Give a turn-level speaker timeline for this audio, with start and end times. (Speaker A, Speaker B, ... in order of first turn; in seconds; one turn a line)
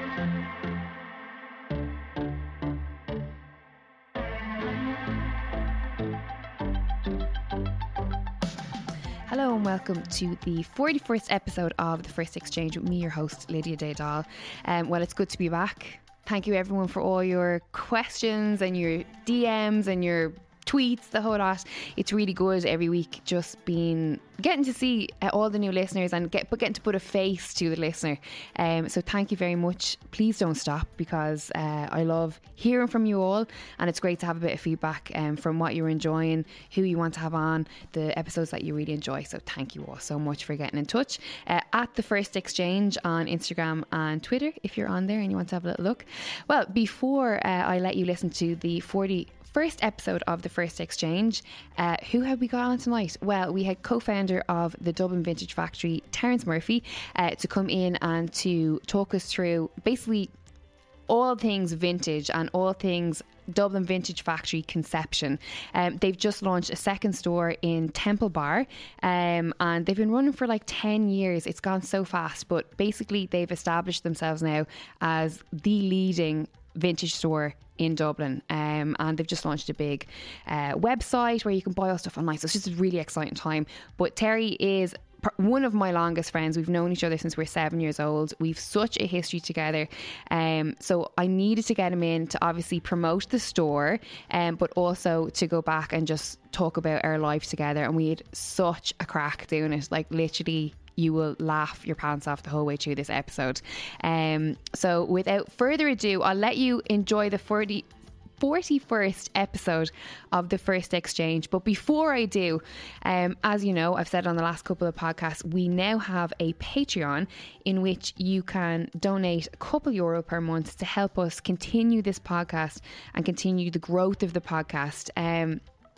Speaker A: 9.3-60.3
Speaker A: 61.1-107.8
Speaker A: 108.4-125.6